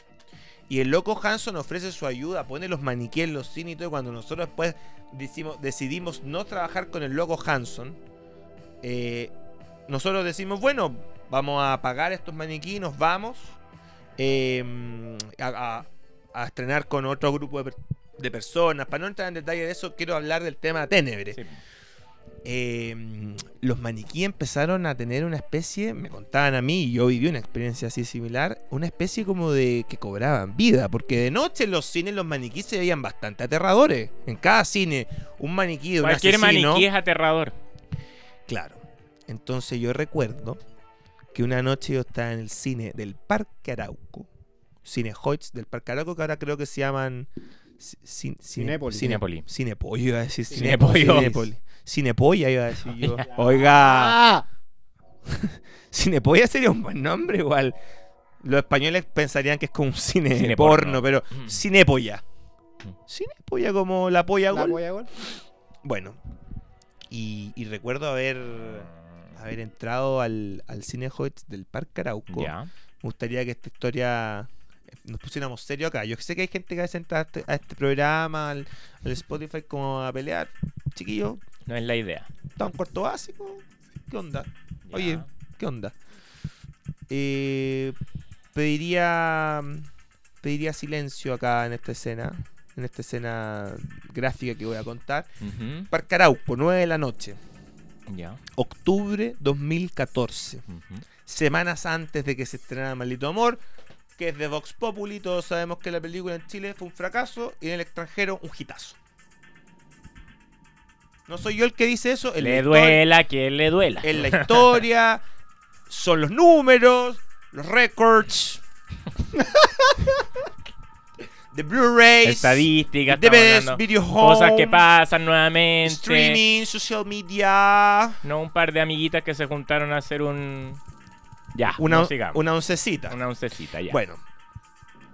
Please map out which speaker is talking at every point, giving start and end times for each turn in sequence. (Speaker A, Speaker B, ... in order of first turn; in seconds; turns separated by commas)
Speaker A: 0.7-8.0, Speaker A: 8.8-9.3, Speaker A: 9.9-13.6, Speaker A: 14.2-21.4, Speaker B: 21.3-21.6, Speaker A: 22.4-36.9, Speaker B: 36.0-37.5, Speaker A: 38.5-40.6, Speaker A: 41.3-44.3, Speaker A: 44.8-54.2, Speaker C: 48.6-49.2, Speaker B: 49.0-49.4, Speaker C: 50.5-51.5, Speaker B: 50.5-51.3, Speaker C: 53.3-54.4, Speaker A: 55.2-57.8, Speaker A: 58.4-62.2, Speaker B: 60.3-61.6, Speaker A: 63.1-64.8, Speaker C: 64.5-65.1, Speaker A: 65.8-66.2, Speaker A: 67.1-81.4, Speaker B: 68.6-69.3, Speaker B: 72.3-72.7, Speaker B: 81.7-82.3, Speaker A: 82.6-85.9, Speaker B: 84.9-85.3, Speaker A: 87.1-88.0, Speaker A: 88.5-89.9, Speaker A: 90.4-95.3, Speaker B: 95.4-95.9, Speaker A: 95.9-97.4, Speaker B: 98.1-98.4, Speaker A: 98.5-100.6, Speaker B: 100.7-101.0, Speaker A: 101.2-103.6, Speaker A: 104.2-109.0, Speaker A: 111.3-113.0, Speaker B: 112.4-114.8, Speaker A: 114.0-115.2, Speaker A: 115.9-118.6, Speaker A: 121.5-124.8, Speaker B: 122.2-126.4, Speaker A: 125.8-128.2, Speaker B: 128.2-130.8, Speaker B: 131.5-132.4, Speaker A: 131.8-133.2, Speaker B: 133.1-134.0, Speaker A: 133.9-134.2